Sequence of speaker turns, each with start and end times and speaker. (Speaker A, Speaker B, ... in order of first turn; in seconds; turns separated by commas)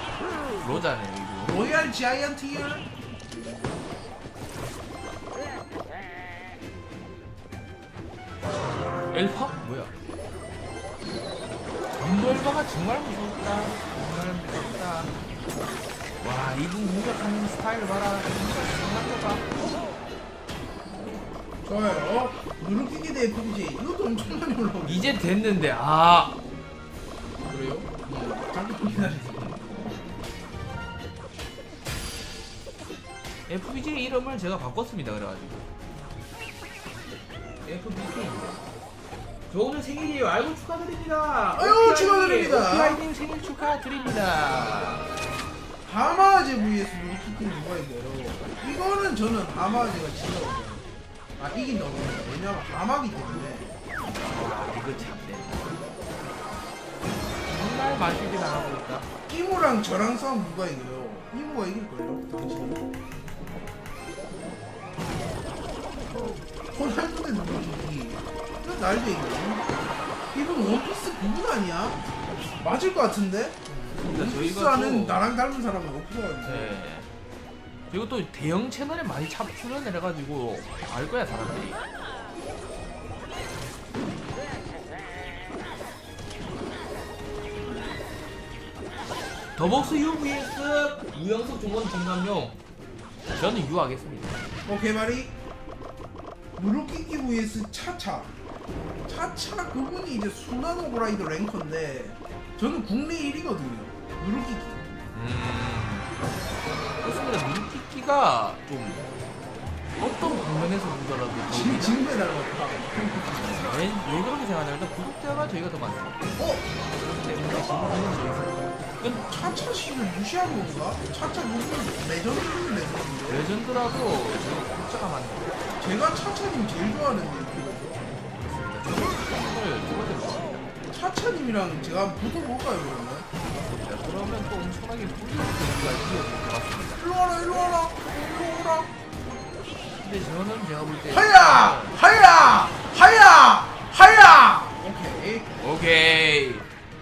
Speaker A: 0.6-1.7, Speaker B: 1.4-2.9, Speaker A: 9.1-9.9, Speaker A: 11.9-15.1, Speaker A: 16.2-19.4, Speaker B: 21.6-25.2, Speaker A: 24.8-26.4, Speaker B: 27.5-29.6, Speaker A: 29.0-29.5, Speaker A: 33.5-35.6, Speaker A: 37.6-38.7, Speaker A: 39.5-45.1, Speaker B: 41.5-43.0, Speaker B: 45.8-50.8, Speaker B: 51.4-53.7, Speaker A: 54.2-55.7, Speaker A: 57.5-59.1, Speaker B: 59.3-62.8, Speaker B: 66.7-69.6, Speaker B: 70.3-72.0, Speaker B: 72.6-76.8, Speaker A: 73.7-75.2, Speaker A: 76.4-77.1, Speaker A: 77.9-81.8, Speaker A: 89.5-92.6, Speaker A: 93.3-94.4, Speaker B: 94.7-95.3, Speaker B: 96.6-98.3, Speaker B: 99.1-104.9, Speaker A: 105.1-106.1, Speaker A: 107.0-109.0, Speaker A: 110.0-112.0, Speaker B: 111.5-113.8, Speaker A: 113.4-116.2, Speaker B: 116.4-116.7, Speaker A: 116.9-119.3, Speaker B: 119.0-123.5, Speaker A: 123.3-125.6, Speaker B: 125.7-128.0, Speaker A: 128.3-130.7, Speaker B: 130.9-133.3, Speaker A: 133.5-137.0, Speaker B: 136.9-138.9, Speaker A: 140.0-142.0, Speaker B: 141.1-145.4, Speaker A: 145.6-146.7